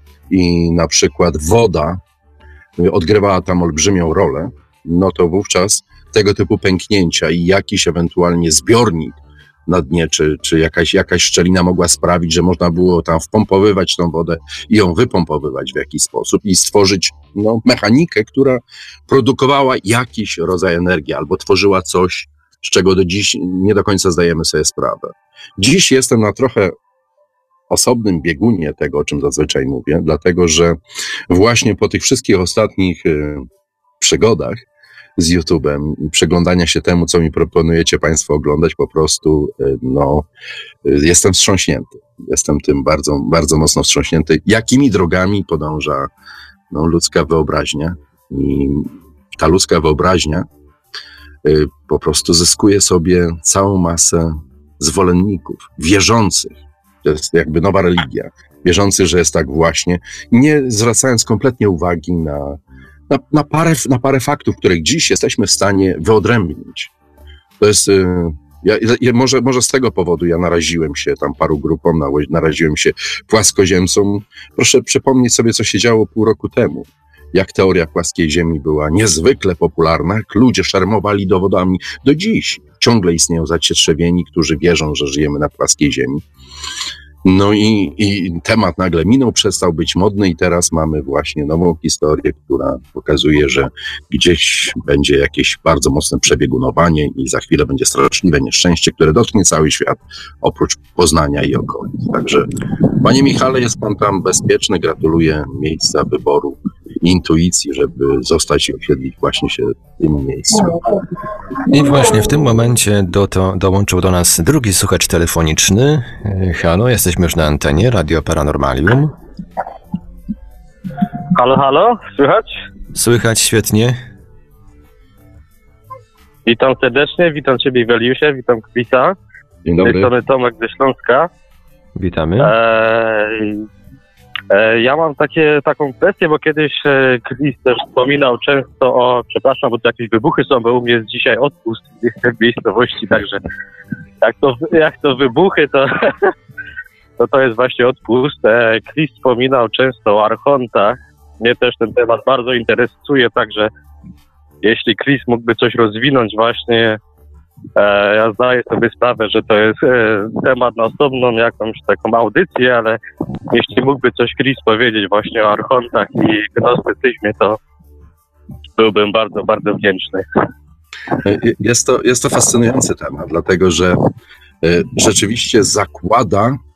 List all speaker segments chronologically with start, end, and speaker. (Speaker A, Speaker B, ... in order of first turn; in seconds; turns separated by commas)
Speaker A: 0.3-2.0, Speaker A: 2.8-26.7, Speaker A: 27.7-30.8, Speaker A: 31.3-33.5, Speaker A: 34.0-34.6, Speaker A: 35.1-40.3, Speaker A: 40.8-46.1, Speaker A: 46.7-50.5, Speaker A: 51.4-66.9, Speaker A: 67.6-86.2, Speaker A: 87.2-102.5, Speaker A: 103.0-110.9, Speaker B: 111.7-119.1, Speaker C: 121.3-122.5, Speaker B: 122.9-124.0, Speaker C: 126.5-129.2, Speaker A: 129.6-130.1, Speaker C: 129.8-131.3, Speaker B: 132.0-132.5, Speaker C: 132.4-133.6, Speaker C: 134.5-143.4, Speaker C: 144.2-146.3, Speaker C: 147.2-153.7, Speaker C: 154.6-157.0, Speaker C: 157.8-163.0, Speaker C: 163.5-167.6, Speaker C: 168.8-170.2, Speaker A: 171.2-174.0, Speaker A: 174.6-176.6